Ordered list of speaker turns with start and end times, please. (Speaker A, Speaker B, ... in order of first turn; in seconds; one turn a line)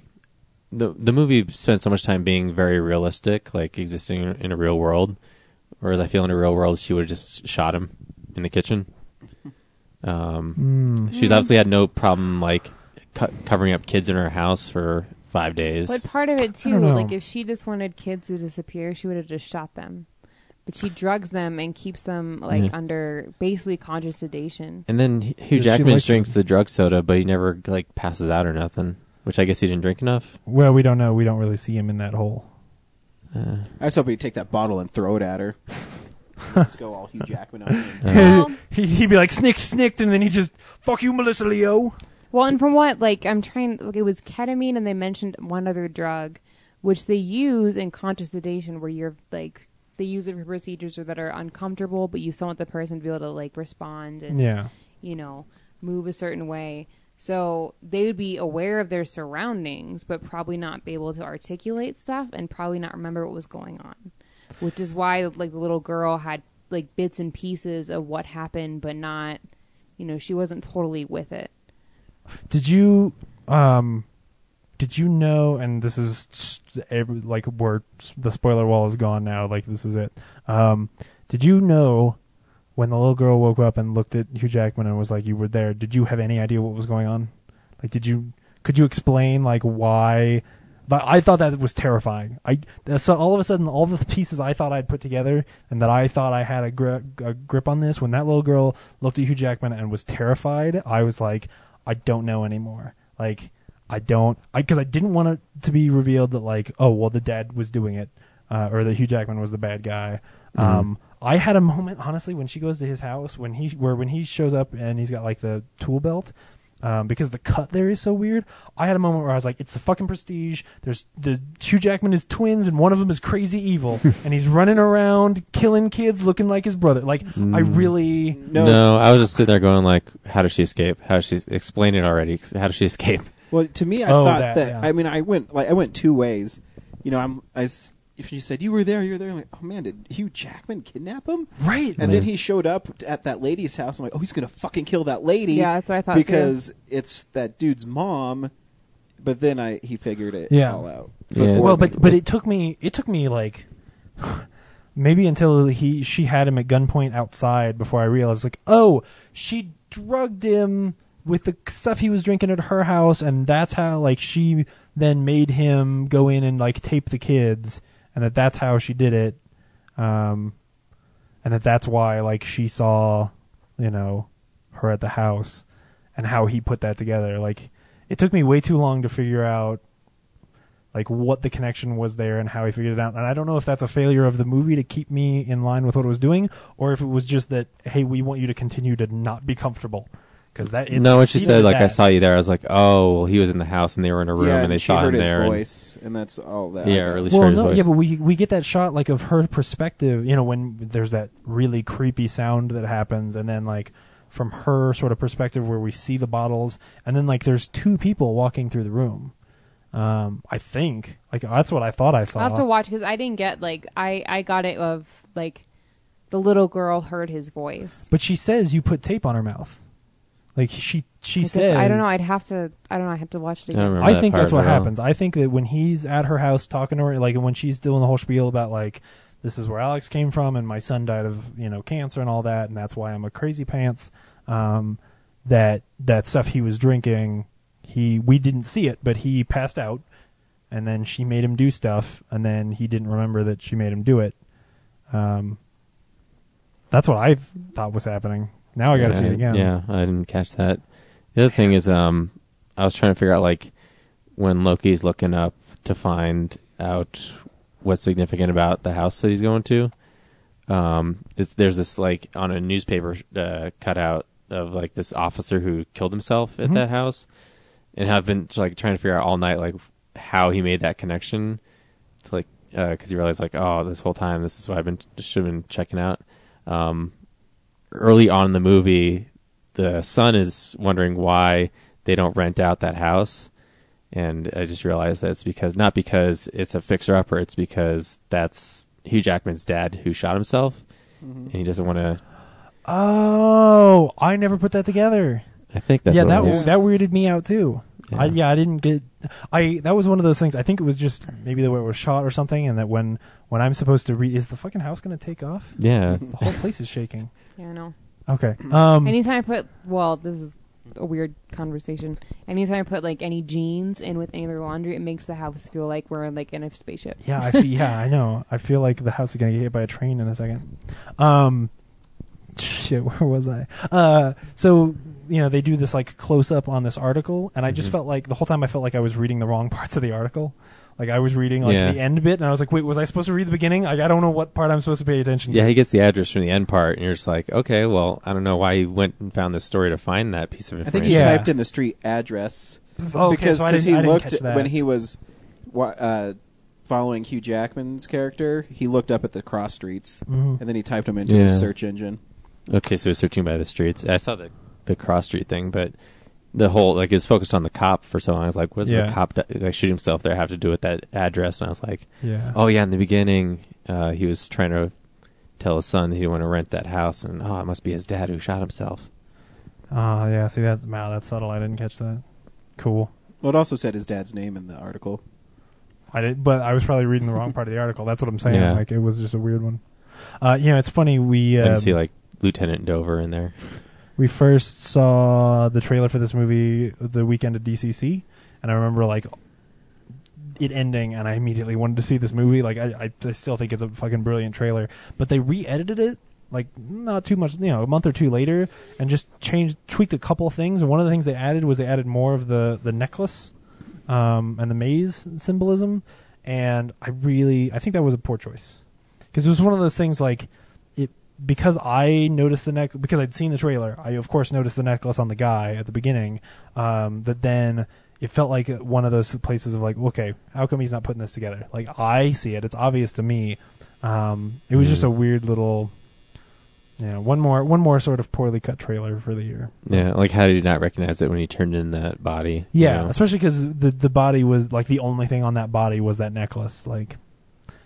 Speaker A: 0.7-5.2
Speaker A: 5.8-8.9
Speaker A: 10.0-16.1
Speaker B: 10.6-11.1
Speaker C: 11.1-11.5
Speaker C: 15.9-20.1
Speaker B: 16.6-17.1
Speaker C: 20.7-24.9
Speaker A: 24.9-30.4
Speaker B: 25.6-26.3
Speaker B: 30.5-32.5
Speaker A: 33.3-33.7
Speaker D: 33.8-35.7
Speaker D: 36.5-38.1
Speaker B: 38.0-42.0
Speaker C: 38.1-38.5
Speaker C: 42.3-54.5
Speaker B: 54.3-54.7
Speaker C: 55.0-69.4
Speaker C: 70.0-71.5
Speaker B: 72.5-74.1
Speaker B: 74.8-82.2
Speaker B: 82.8-128.4
Speaker A: 110.6-110.9
Speaker A: 127.4-128.0
Speaker D: 128.4-129.0
Speaker A: 128.5-133.3
Speaker D: 133.5-148.5
Speaker B: 134.1-134.9
Speaker B: 141.6-142.2
Speaker A: 142.0-142.3
Speaker C: 145.5-146.6
Speaker D: 149.2-152.0
Speaker B: 150.5-153.7
Speaker A: 151.3-152.2
Speaker B: 154.2-169.4
Speaker B: 170.0-170.6
Speaker B: 171.4-179.8
Speaker B: 180.9-192.0
Speaker A: 190.9-195.6
Speaker D: 194.4-197.3
Speaker A: 196.8-197.9
Speaker B: 197.3-209.3
Speaker B: 209.9-212.7
Speaker C: 212.4-215.7
Speaker C: 216.3-218.1
Speaker B: 218.1-219.8
Speaker B: 220.6-222.1
Speaker C: 221.4-224.1
Speaker A: 223.7-224.9
Speaker B: 224.0-240.1
Speaker B: 240.7-244.4
Speaker B: 245.1-245.6
Speaker B: 246.9-249.7
Speaker A: 248.9-253.7
Speaker A: 254.3-259.9
Speaker A: 260.7-267.3
Speaker A: 267.9-271.6
Speaker A: 272.2-277.1
Speaker A: 277.9-283.5
Speaker A: 284.1-290.8
Speaker D: 291.2-291.5
Speaker A: 291.5-292.2
Speaker B: 292.9-295.5
Speaker A: 295.7-296.7
Speaker B: 296.1-307.3
Speaker D: 296.4-296.7
Speaker A: 298.1-298.4
Speaker A: 305.8-306.6
Speaker C: 307.6-307.9
Speaker B: 308.3-309.2
Speaker C: 309.0-317.6
Speaker B: 317.2-321.7
Speaker B: 322.6-335.8
Speaker A: 331.6-332.0
Speaker A: 335.5-341.4
Speaker D: 340.9-352.2
Speaker B: 341.1-341.5
Speaker B: 343.0-344.7
Speaker B: 350.3-350.6
Speaker A: 351.3-351.7
Speaker A: 352.7-355.9
Speaker A: 356.5-364.9
Speaker B: 358.8-359.2
Speaker B: 362.2-362.6
Speaker A: 365.5-369.1
Speaker B: 369.9-372.2
Speaker B: 372.8-373.1
Speaker D: 373.4-375.2
Speaker B: 376.1-382.0
Speaker A: 378.4-378.8
Speaker A: 381.6-383.9
Speaker B: 384.2-389.4
Speaker B: 390.6-403.5
Speaker B: 404.1-408.8
Speaker B: 409.3-425.9
Speaker A: 424.8-425.1
Speaker B: 427.0-430.1
Speaker A: 429.9-433.1
Speaker B: 432.7-437.2